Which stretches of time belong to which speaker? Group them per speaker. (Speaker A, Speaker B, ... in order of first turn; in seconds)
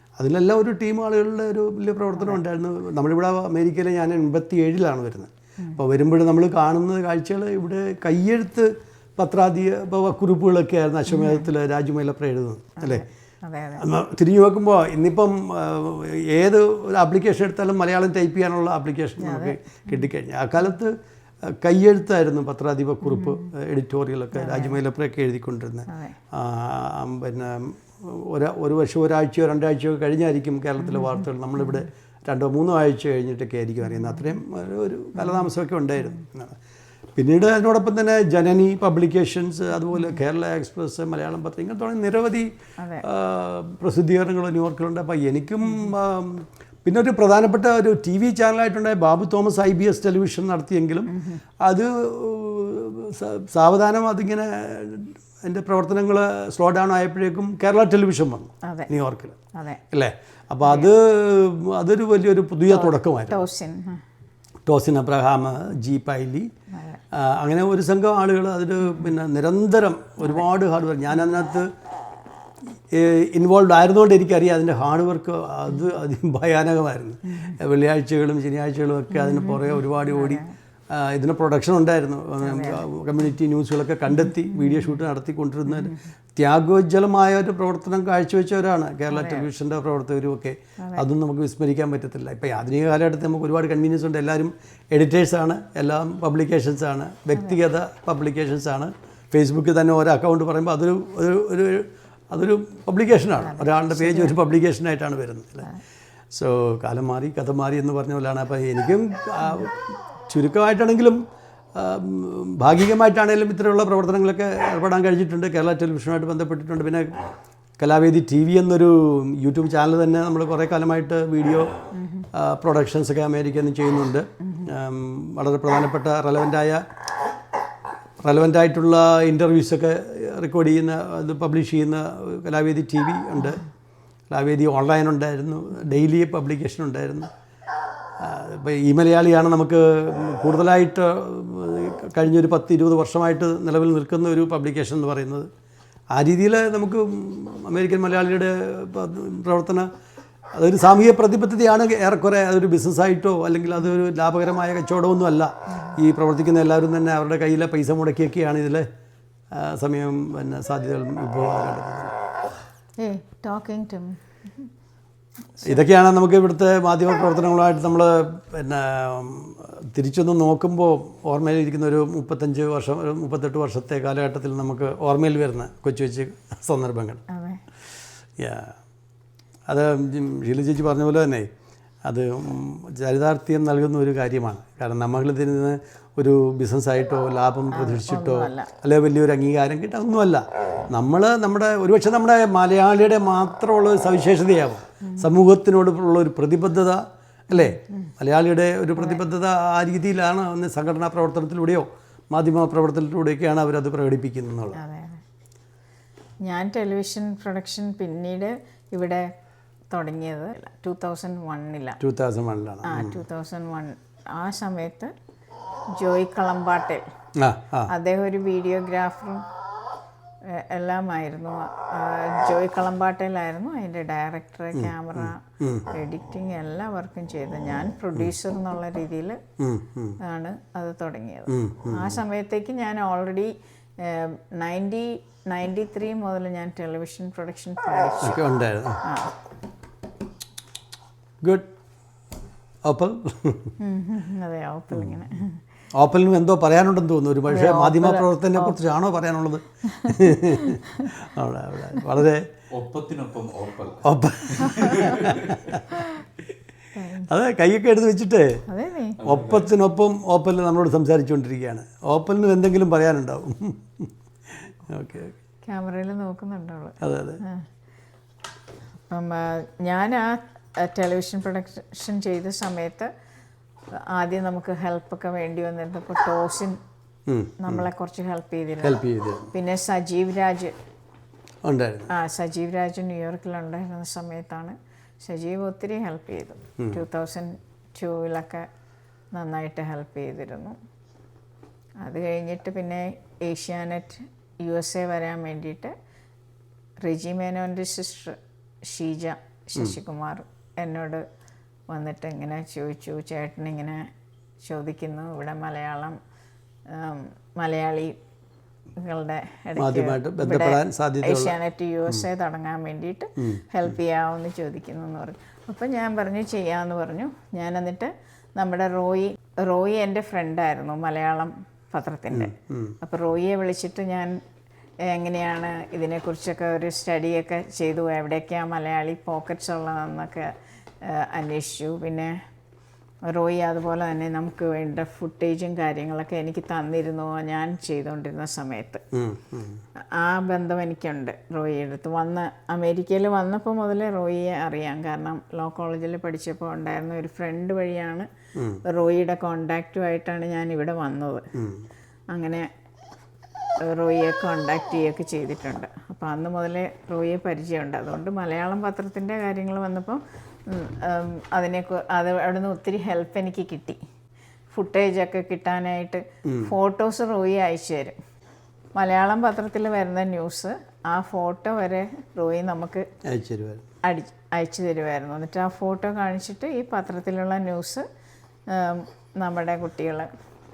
Speaker A: 0.2-13.0, 13.8-36.6, 37.1-42.5, 43.0-59.4, 59.9-63.4, 64.7-66.5, 67.1-71.7, 72.9-105.7, 106.3-111.2, 111.7-117.2, 117.8-121.8, 122.3-126.8, 128.2-133.6, 134.3-137.3, 138.2-145.5, 146.1-149.9, 150.6-158.9, 159.5-162.1, 165.6-177.2, 178.4-178.8, 179.7-181.5, 182.1-204.8, 212.0-213.2, 217.4-217.9, 224.7-225.9, 229.6-230.2, 231.5-232.2, 238.2-239.0, 241.4-241.7, 242.8-243.7, 245.9-252.5, 254.0-256.0, 257.3-258.6, 259.2-265.3, 267.0-267.4, 277.3-277.9, 278.8-279.5, 281.6-282.1, 309.8-311.6, 313.4-314.0, 322.3-323.0, 339.1-339.8, 348.6-348.8, 351.5-351.8, 366.4-366.7, 373.2-373.9
Speaker B: 11.1-11.5, 12.8-13.8, 19.2-20.1, 23.0-23.4, 24.3-24.8, 25.9-26.2, 30.8-31.9, 33.9-34.3, 35.1-35.5, 42.8-43.0, 45.7-45.9, 51.1-51.4, 58.6-58.9, 59.5-59.8, 60.6-60.9, 62.7-64.0, 66.7-67.0, 68.9-69.1, 77.3-77.6, 79.1-80.5, 82.4-82.8, 84.2-84.9, 85.7-86.0, 89.1-89.5, 90.8-91.0, 103.4-104.3, 121.9-122.3, 124.4-124.7, 163.0-164.7, 177.3-177.6, 187.7-188.7, 195.0-195.3, 197.5-198.1, 199.0-199.2, 204.8-205.2, 206.4-209.3, 209.9-212.0, 212.8-215.1, 215.9-217.1, 217.9-219.4, 220.4-229.4, 230.2-238.4, 239.0-239.3, 243.8-245.6, 247.5-248.8, 249.9-251.1, 254.6-255.3, 256.9-257.3, 258.7-259.2, 265.6-267.6, 269.1-273.1, 273.9-276.8, 277.6-279.0, 279.5-280.7, 282.1-288.7, 289.3-290.8, 292.0-295.9, 297.0-301.2, 301.9-304.1, 304.6-306.2, 306.9-308.1, 309.0-324.4, 325.0-332.4, 333.3-339.0, 340.1-348.3, 348.8-351.4, 352.3-352.7, 353.8-364.0, 364.7-368.2, 368.9-373.1, 374.0-378.1, 378.7-380.3
Speaker C: 252.7-255.8, 259.2-259.6